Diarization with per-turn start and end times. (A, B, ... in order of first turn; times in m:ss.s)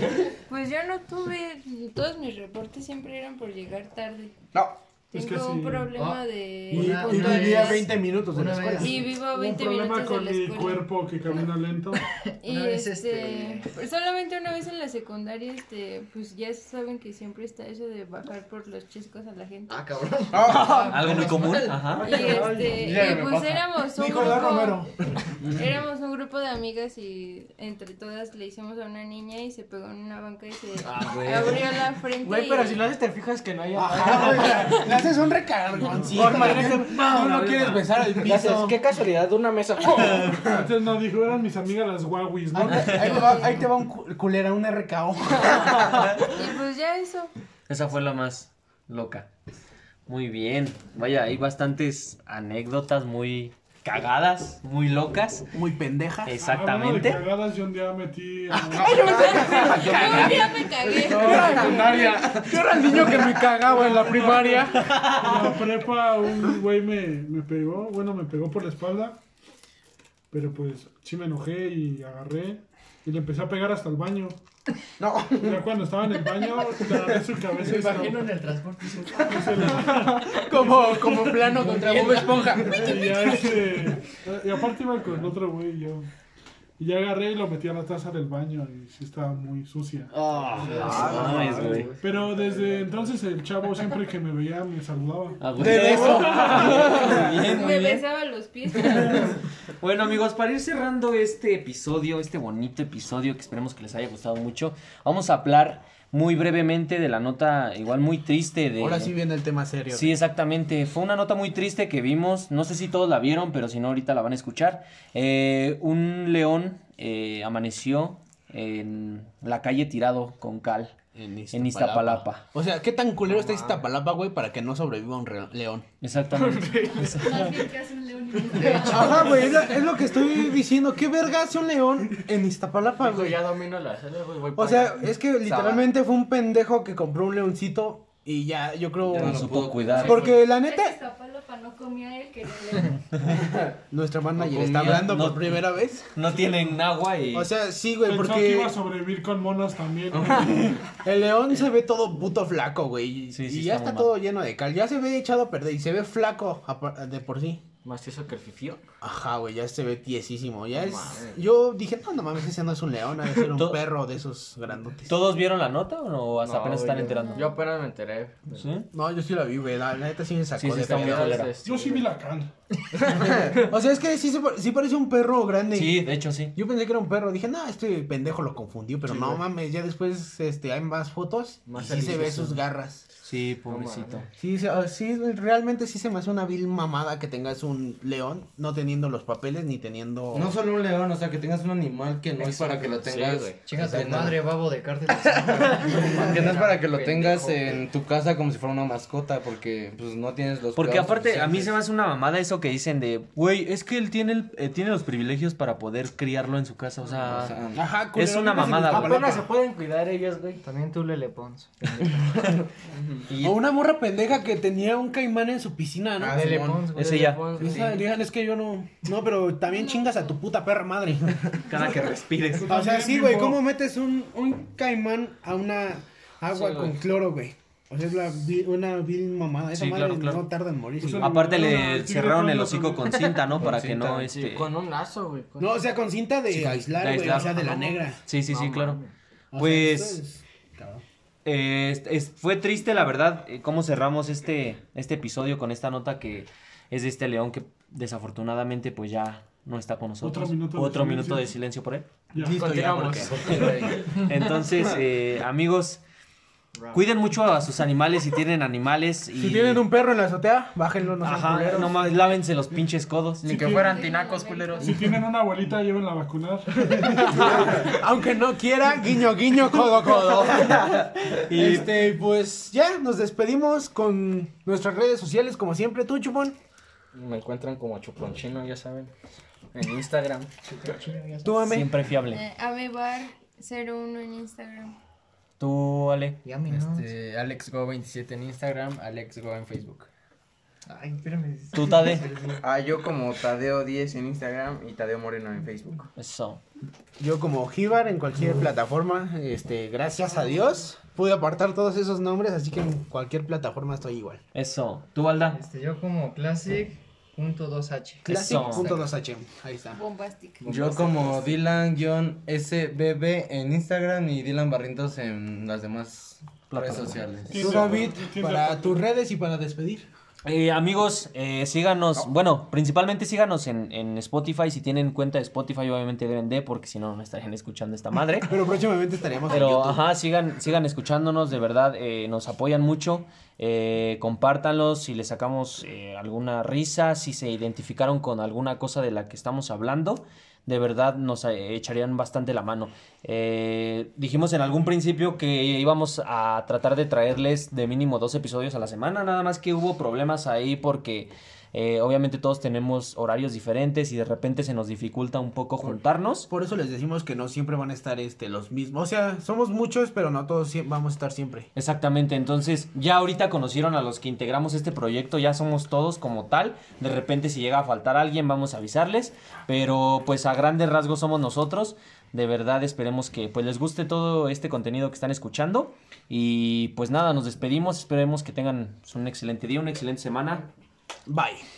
0:00.5-0:04.4 A
0:05.1-0:07.9 A
0:05.1-0:06.0 B
0:05.9-0:09.0 C
0:06.7-0:09.1 D
0:07.0-0:07.5 B
0:08.8-0:11.1 A
0:09.1-0:12.1 B
0:12.4-0:19.8 A
0:12.4-0:13.7 C
0:19.7-0:22.6 C
0:20.3-0:21.0 E
0:20.3-0:22.3 F
0:21.8-0:23.2 B
0:21.9-0:24.8 A
0:22.3-0:24.9 D
0:25.5-0:32.9 A
0:30.8-0:31.6 G
0:32.2-0:35.0 G
0:33.7-0:38.8 D
0:36.0-0:40.5 G
0:40.4-0:43.0 B
0:42.5-0:45.9 D
0:42.7-0:43.2 F
0:42.9-0:43.6 A
0:45.8-0:46.2 F
0:46.2-0:47.3 A
0:47.7-0:49.3 F
0:50.1-0:55.5 F
0:55.5-0:56.4 D
0:56.2-0:57.2 F
0:56.4-0:59.0 B
0:58.5-1:05.4 D
0:58.8-1:02.5 A
1:01.0-1:01.8 B
1:03.6-1:09.2 B
1:04.8-1:05.5 F
1:10.3-1:14.4 B
1:15.0-1:15.6 E
1:15.4-1:18.4 B
1:17.6-1:19.9 C
1:19.1-1:21.6 B
1:20.0-1:20.4 G
1:20.2-1:23.9 D
1:21.7-1:23.3 G
1:22.7-1:26.1 B
1:26.8-1:30.1 B
1:30.1-1:32.0 G
1:30.2-1:31.9 F
1:30.5-1:32.2 C
1:30.8-1:31.3 D
1:32.0-1:36.6 B
1:35.4-1:38.0 F
1:35.6-1:37.4 D
1:36.4-1:39.4 A
1:38.9-1:39.3 F
1:39.8-1:49.1 F
1:48.8-1:50.2 D
1:49.9-2:00.9 F
2:01.1-2:05.8 D
2:01.5-2:02.4 F
2:03.3-2:03.8 G
2:06.0-2:06.9 F
2:06.3-2:07.4 G
2:07.0-2:07.6 C
2:07.2-2:09.9 H
2:08.6-2:08.9 C
2:08.6-2:09.4 G
2:08.6-2:13.4 D
2:12.8-2:15.1 G
2:14.5-2:21.0 D
2:15.5-2:15.9 E
2:19.0-2:20.4 I
2:19.1-2:20.4 F
2:20.4-2:23.2 H
2:23.9-2:26.1 D
2:24.4-2:27.5 F
2:24.5-2:25.0 G
2:27.3-2:28.8 D
2:28.0-2:30.6 B
2:30.1-2:30.7 I
2:30.3-2:37.6 D
2:33.3-2:34.1 F
2:37.8-2:38.8 G
2:39.0-2:45.3 D
2:40.7-2:41.4 G
2:43.6-2:43.8 F
2:45.1-2:47.6 F
2:46.4-2:48.7 G
2:47.1-2:47.5 A
2:48.5-2:48.9 F
2:48.9-2:51.4 D
2:50.6-2:51.5 F
2:50.7-2:52.1 G
2:51.6-2:52.5 B
2:52.9-2:53.7 G
2:53.2-3:03.0 D
2:55.7-2:56.6 F
2:59.1-2:59.4 G
3:01.7-3:02.6 G
3:03.2-3:04.3 F
3:03.6-3:04.3 G
3:04.4-3:10.6 D
3:10.3-3:14.5 I
3:12.4-3:14.2 G
3:13.6-3:17.8 C
3:15.1-3:21.8 I
3:20.7-3:27.6 F
3:27.0-3:27.3 G
3:27.2-3:27.8 I
3:27.7-3:29.4 D
3:28.1-3:29.5 F
3:28.8-3:30.6 G
3:30.6-3:32.6 C
3:32.9-3:33.3 G
3:33.3-3:33.6 F
3:33.4-3:36.5 D
3:36.2-3:37.2 C
3:36.3-3:36.8 E
3:36.4-3:38.0 G
3:36.9-3:37.6 F
3:37.6-3:41.6 D
3:39.7-3:40.3 A
3:41.6-3:42.7 F
3:42.5-3:43.6 B
3:42.7-3:51.4 D
3:46.5-3:47.0 G
3:49.7-3:50.4 F
3:51.0-3:53.3 B
3:51.1-3:54.7 F
3:53.6-3:55.8 G
3:55.6-3:58.2 D
3:56.5-3:59.0 F
3:58.4-3:59.1 G
3:59.5-4:01.0 D
3:59.6-4:00.2 F
4:01.4-4:12.1 F
4:10.2-4:11.4 B
4:12.3-4:12.6 B
4:12.4-4:13.6 D
4:12.4-4:14.2 G
4:13.4-4:16.0 F
4:16.9-4:19.8 F
4:19.3-4:22.2 D
4:21.2-4:23.9 F
4:23.4-4:24.0 B
4:23.4-4:25.0 G
4:23.6-4:25.1 H
4:24.8-4:27.5 B
4:27.2-4:36.6 D
4:30.2-4:32.1 F
4:37.1-4:39.1 G
4:39.7-4:40.5 G
4:40.6-4:41.7 C
4:41.4-4:42.0 D
4:41.6-4:42.4 F
4:42.3-4:44.9 A
4:45.6-4:46.4 F
4:46.4-4:47.1 C
4:46.7-4:50.1 J
4:50.8-4:52.6 C
4:51.7-4:52.3 F
4:52.6-4:56.1 E
4:56.2-4:56.6 F
4:57.2-5:04.4 D
5:04.5-5:05.6 F
5:05.5-5:09.0 C
5:08.2-5:10.0 D
5:08.3-5:08.9 F
5:09.9-5:10.7 A
5:10.6-5:17.8 I
5:10.6-5:11.4 C
5:16.7-5:17.8 F
5:17.5-5:19.0 B
5:17.6-5:20.1 D
5:20.4-5:28.6 F
5:28.4-5:30.0 D
5:29.5-5:56.5 F
5:55.8-6:01.7 D
6:01.8-6:20.6 F
6:21.3-6:21.6 D